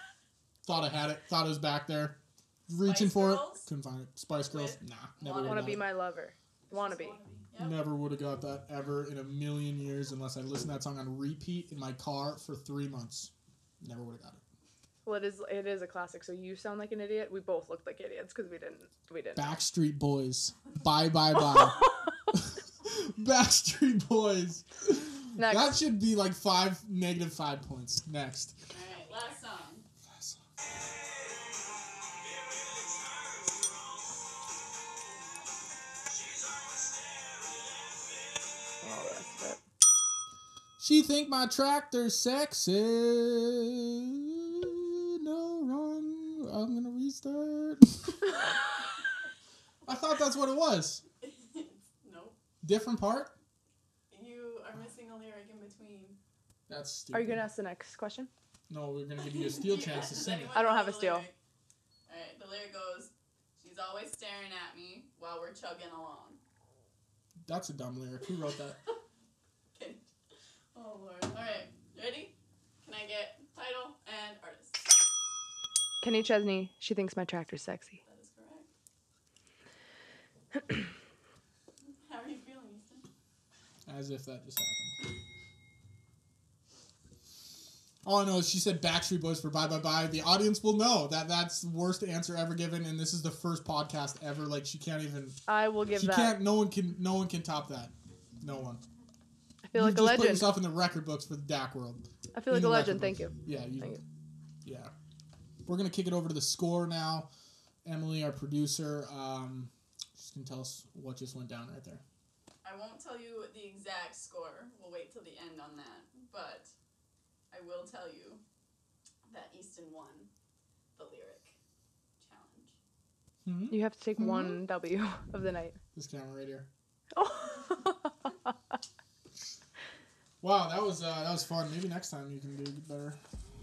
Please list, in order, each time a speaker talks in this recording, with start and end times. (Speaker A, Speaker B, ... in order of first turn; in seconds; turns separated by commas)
Speaker A: 0.6-5.9, Speaker B: 2.8-3.7, Speaker B: 4.5-5.8, Speaker C: 5.4-7.2, Speaker B: 6.7-7.8, Speaker A: 7.6-14.4, Speaker C: 15.0-19.6, Speaker A: 19.4-21.8, Speaker A: 22.3-28.6, Speaker C: 25.4-25.8, Speaker B: 28.7-29.9, Speaker A: 30.1-30.4, Speaker C: 38.8-39.6, Speaker A: 40.8-48.3, Speaker A: 49.8-51.0, Speaker B: 51.2-52.4, Speaker A: 52.6-53.3, Speaker B: 54.1-56.2, Speaker A: 56.7-57.5, Speaker C: 57.1-58.3, Speaker A: 58.7-60.5, Speaker B: 59.5-61.3, Speaker C: 60.5-61.3, Speaker B: 62.1-66.4, Speaker A: 67.5-68.8, Speaker B: 69.7-70.0, Speaker B: 70.7-75.0, Speaker C: 76.0-78.0, Speaker B: 78.0-78.7, Speaker B: 82.0-83.1, Speaker A: 83.8-85.0, Speaker A: 88.0-95.4, Speaker C: 95.5-96.4, Speaker A: 95.9-98.8, Speaker C: 99.6-100.5, Speaker A: 99.7-104.0, Speaker C: 102.3-104.0, Speaker A: 104.6-104.9, Speaker A: 105.7-107.3, Speaker A: 107.8-112.0, Speaker B: 112.6-116.7, Speaker B: 117.5-118.4, Speaker B: 119.3-120.3, Speaker B: 121.0-121.5, Speaker B: 122.2-122.7, Speaker A: 123.4-124.6, Speaker C: 123.7-125.8, Speaker A: 125.9-126.7, Speaker C: 127.1-128.3, Speaker A: 130.4-133.2